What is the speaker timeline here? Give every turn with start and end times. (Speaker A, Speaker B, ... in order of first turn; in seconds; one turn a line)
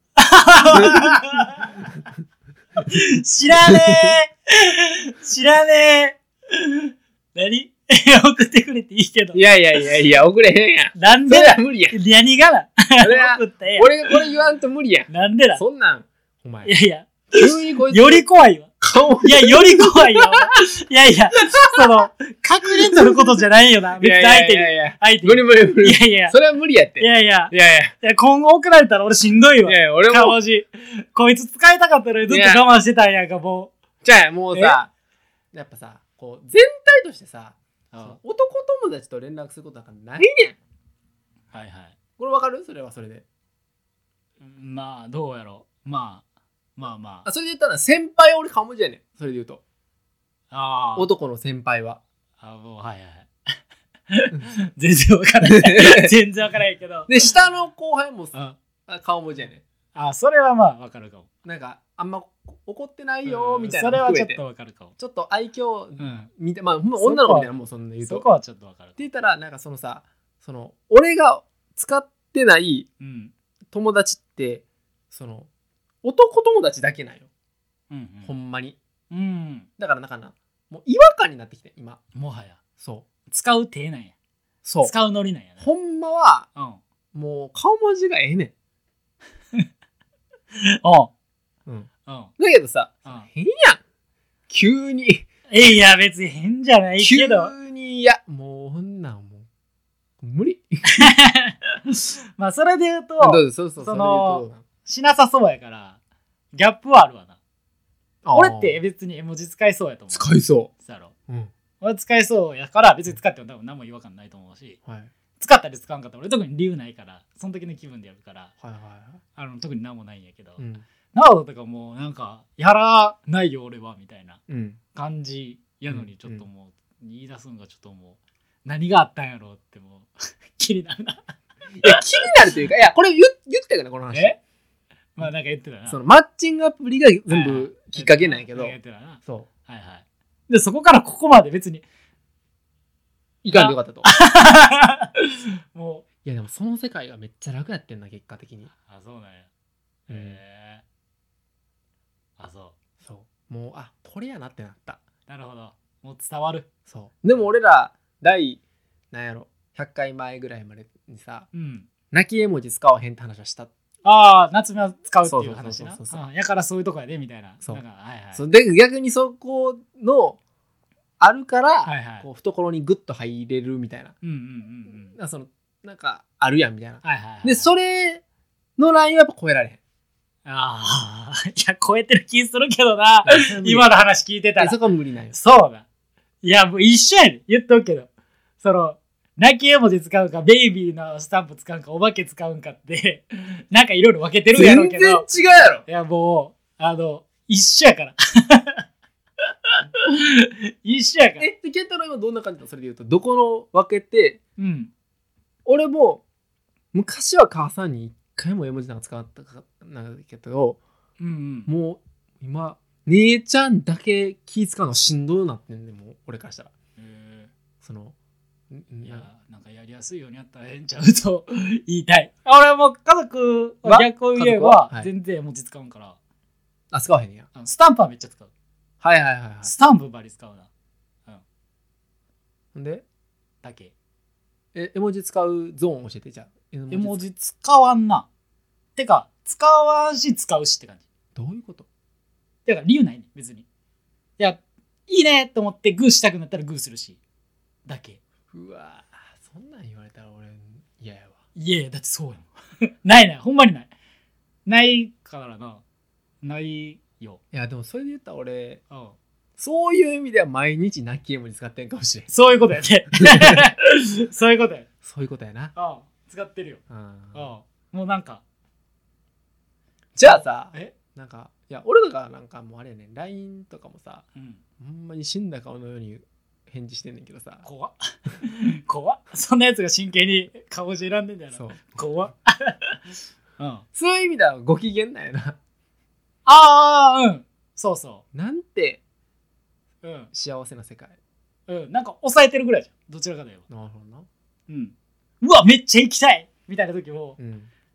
Speaker A: 0.2-1.9
Speaker B: 0.7-2.1
Speaker A: 2.8-9.9
Speaker B: 3.6-4.2
Speaker B: 9.3-12.0
Speaker A: 10.9-14.2
Speaker B: 13.0-16.7
Speaker A: 15.1-15.6
Speaker A: 16.6-26.4
Speaker B: 17.3-18.2
Speaker B: 18.8-20.5
Speaker B: 21.4-21.9
Speaker B: 22.7-23.4
Speaker B: 24.0-27.9
Speaker A: 27.0-33.7
Speaker B: 29.6-30.4
Speaker B: 32.3-32.6
Speaker B: 34.0-34.9
Speaker A: 34.5-34.8
Speaker B: 35.5-40.6
Speaker A: 37.9-38.2
Speaker A: 41.5-42.0
Speaker B: 42.2-43.2
Speaker A: 44.4-46.2
Speaker A: 46.8-47.3
Speaker B: 47.2-49.6
Speaker A: 50.5-51.1
Speaker B: 51.0-52.0
Speaker A: 52.4-53.3
Speaker A: 54.1-57.3
Speaker B: 55.4-56.1
Speaker B: 57.1-59.6
Speaker A: 60.0-61.3
Speaker B: 61.5-64.4
Speaker A: 63.2-65.0
Speaker B: 65.0-68.3
Speaker A: 66.0-66.3
Speaker A: 67.0-69.0
Speaker B: 69.0-72.9
Speaker A: 73.0-73.3
Speaker B: 73.7-75.5
Speaker B: 76.0-77.3
Speaker A: 77.9-78.3
Speaker B: 78.2-78.8
Speaker A: 79.1-79.7
Speaker B: 79.8-82.0
Speaker A: 82.1-82.6
Speaker B: 82.8-83.1
Speaker A: 83.3-84.1
Speaker B: 84.7-84.9
Speaker A: 84.8-85.7
Speaker B: 85.6-86.5
Speaker B: 87.1-88.5
Speaker A: 90.5-91.1
Speaker B: 91.7-93.8
Speaker A: 92.1-92.3
Speaker B: 94.5-95.3
Speaker A: 95.5-97.5
Speaker B: 97.0-99.5
Speaker B: 100.2-101.1
Speaker A: 100.9-106.0
Speaker B: 103.2-104.6
Speaker A: 106.5-107.4
Speaker B: 108.2-108.8
Speaker A: 108.3-111.1
Speaker B: 110.1-110.7
Speaker A: 111.8-114.8
Speaker B: 114.8-115.1
Speaker A: 115.4-118.5
Speaker B: 118.6-119.2
Speaker A: 119.4-120.6
Speaker B: 120.6-120.8
Speaker A: 121.1-124.4
Speaker B: 124.5-124.8
Speaker A: 125.0-131.3
Speaker B: 125.9-126.4
Speaker B: 131.8-134.4
Speaker A: 135.2-136.0
Speaker B: 135.9-139.5
Speaker A: 137.3-141.9
Speaker B: 143.4-144.1
Speaker A: 143.5-146.1
Speaker B: 146.2-148.7
Speaker A: 148.7-149.5
Speaker A: 150.1-150.8
Speaker B: 150.1-150.4
Speaker A: 152.4-152.8
Speaker B: 153.0-155.0
Speaker A: 155.3-156.7
Speaker B: 156.9-158.6
Speaker B: 159.1-161.5
Speaker A: 161.5-161.9
Speaker B: 162.1-163.7
Speaker A: 164.0-168.4
Speaker B: 165.3-166.2
Speaker B: 168.3-170.4
Speaker B: 171.2-174.2
Speaker A: 171.8-172.3
Speaker A: 174.2-175.2
Speaker B: 175.2-178.2
Speaker A: 177.0-177.7
Speaker B: 178.8-179.8
Speaker A: 180.4-184.8
Speaker B: 183.2-183.9
Speaker B: 184.6-185.3
Speaker A: 185.3-185.8
Speaker A: 186.4-188.1
Speaker A: 188.6-195.3
Speaker B: 194.6-195.8
Speaker A: 195.9-198.8
Speaker A: 199.5-201.5
Speaker B: 201.4-204.4
Speaker A: 204.6-204.9
Speaker B: 205.7-206.2
Speaker B: 206.9-210.8
Speaker A: 211.2-211.7
Speaker B: 211.7-216.7
Speaker A: 217.0-217.5
Speaker B: 217.8-218.2
Speaker B: 218.7-219.3
Speaker A: 219.0-226.2
Speaker B: 223.8-225.1
Speaker B: 226.9-227.5
Speaker A: 227.6-228.5
Speaker B: 229.0-229.7
Speaker A: 229.6-230.7
Speaker B: 232.8-233.0
Speaker A: 233.6-233.9
Speaker B: 234.8-237.3
Speaker A: 236.9-238.3
Speaker A: 239.0-241.0
Speaker B: 241.3-241.9
Speaker A: 242.7-243.7
Speaker A: 244.4-247.2
Speaker A: 247.9-248.2
Speaker B: 248.5-251.4
Speaker A: 251.6-253.9
Speaker A: 254.7-255.8
Speaker A: 256.4-257.4
Speaker B: 257.5-258.8
Speaker A: 258.9-259.2
Speaker B: 259.6-262.3
Speaker A: 262.3-264.9
Speaker B: 263.1-263.7
Speaker B: 265.0-265.7
Speaker A: 265.8-266.8
Speaker B: 266.9-267.5
Speaker A: 267.3-268.4
Speaker B: 270.1-274.2
Speaker A: 270.2-270.9
Speaker A: 274.4-274.6
Speaker B: 274.8-277.6
Speaker A: 277.6-283.9
Speaker B: 281.5-282.0
Speaker B: 283.9-285.6
Speaker A: 286.5-288.2
Speaker B: 288.3-289.0
Speaker A: 290.0-290.3
Speaker B: 290.3-291.2
Speaker A: 291.7-293.6
Speaker B: 293.7-294.3
Speaker A: 294.7-297.4
Speaker B: 297.4-297.7